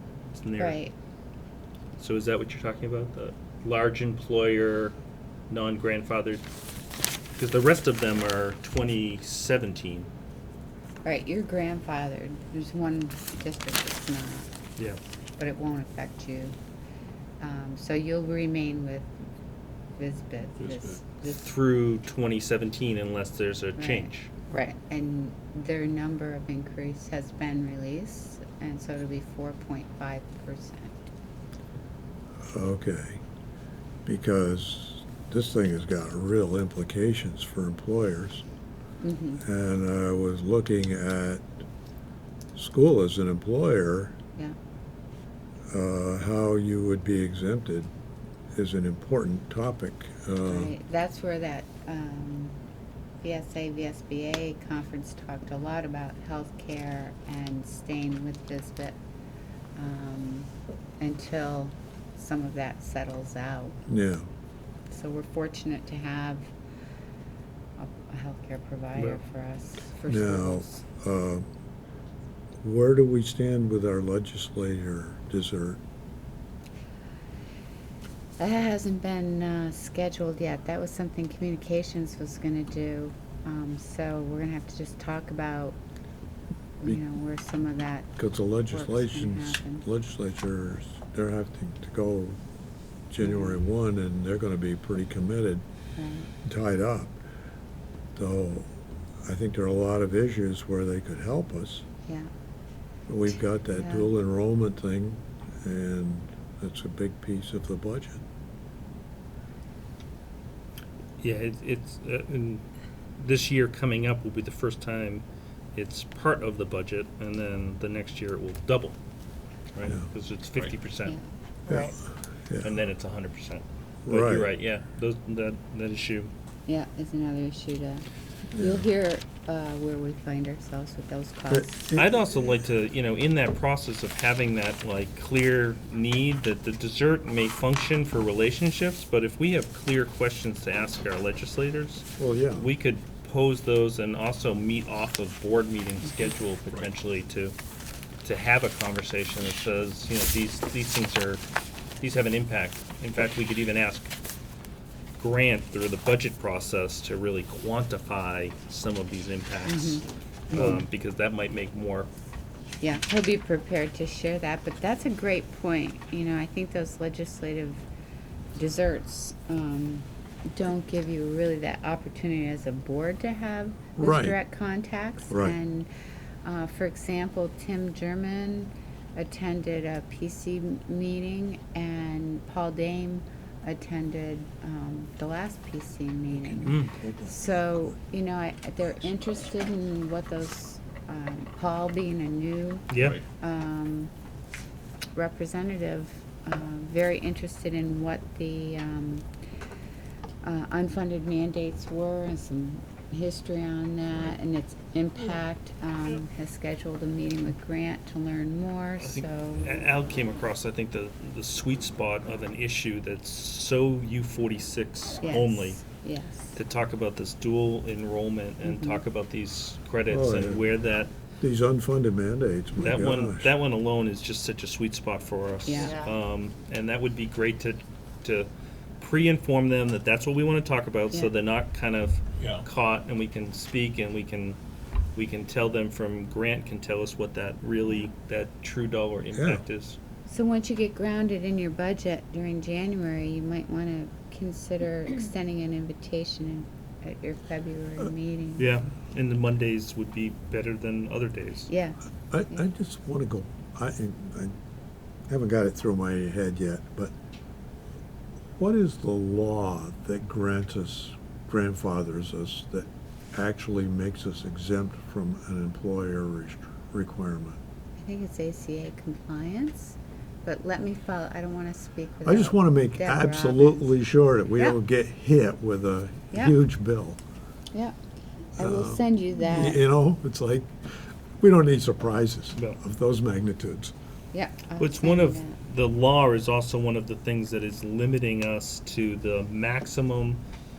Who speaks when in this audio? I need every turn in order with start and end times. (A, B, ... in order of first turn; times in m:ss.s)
0:00.3-0:00.8 A
0:00.6-0:00.9 B
0:02.0-0:05.0 A
0:05.5-0:06.4 A
0:07.4-0:10.1 A
0:11.0-0:14.5 B
0:15.4-0:16.6 B
0:17.4-0:19.1 B
0:20.0-0:21.5 B
0:21.4-0:24.3 A
0:23.8-0:31.0 B
0:32.5-0:33.2 C
0:34.0-0:38.4 C
0:39.0-0:39.4 B
0:39.4-0:41.5 C
0:42.6-0:44.1 C
0:45.7-0:47.9 C
0:48.6-0:50.7 C
0:50.4-0:52.6 B
0:53.2-0:59.0 B
0:59.8-1:03.8 B
1:03.9-1:04.3 C
1:04.9-1:06.5 B
1:07.8-1:10.8 B
1:10.1-1:11.4 C
1:12.6-1:15.8 C
1:18.4-1:25.8 B
1:26.8-1:28.1 B
1:28.2-1:32.4 C
1:28.7-1:29.9 B
1:33.1-1:35.6 C
1:33.2-1:33.6 B
1:36.0-1:36.3 B
1:36.4-1:37.2 C
1:38.2-1:38.7 C
1:39.2-1:41.8 C
1:43.1-1:48.2 C
1:43.7-1:44.1 B
1:51.2-1:52.6 A
1:53.2-1:59.0 A
1:59.7-2:02.0 A
2:01.7-2:02.7 C
2:02.6-2:06.3 A
2:04.0-2:04.5 C
2:06.7-2:12.0 B
2:08.5-2:08.9 C
2:11.5-2:12.2 C
2:12.0-2:27.6 A
2:22.2-2:22.7 C
2:28.2-2:31.4 A
2:32.0-2:34.1 A
2:35.2-2:42.1 A
2:39.7-2:40.8 B
2:42.8-2:47.8 B
2:48.6-2:55.9 B
2:54.0-2:54.4 C
2:55.3-2:55.6 C
2:56.4-3:14.1 B
3:06.3-3:08.0 C
3:06.7-3:06.9 A
3:12.9-3:13.2 A
3:15.2-3:19.3 B
3:20.4-3:29.9 B
3:29.0-3:35.8 A
3:35.2-3:36.6 B
3:36.5-3:41.1 A
3:38.6-3:39.0 B
3:40.1-3:40.6 C
3:41.4-3:43.5 C
3:42.8-3:48.5 A
3:45.7-3:46.1 B
3:49.0-3:54.6 A
3:55.2-4:00.0 A
3:59.3-3:59.6 C
4:00.3-4:08.7 B
4:08.6-4:11.7 A
4:11.7-4:12.0 B
4:12.3-4:14.5 C
4:15.3-4:17.1 C
4:18.6-4:27.6 C
4:28.0-4:33.9 B
4:32.2-4:37.2 C
4:36.3-4:36.6 B
4:38.6-4:39.8 B
4:38.6-4:40.8 C
4:41.4-4:43.9 C
4:44.3-4:45.6 B
4:44.8-4:50.4 A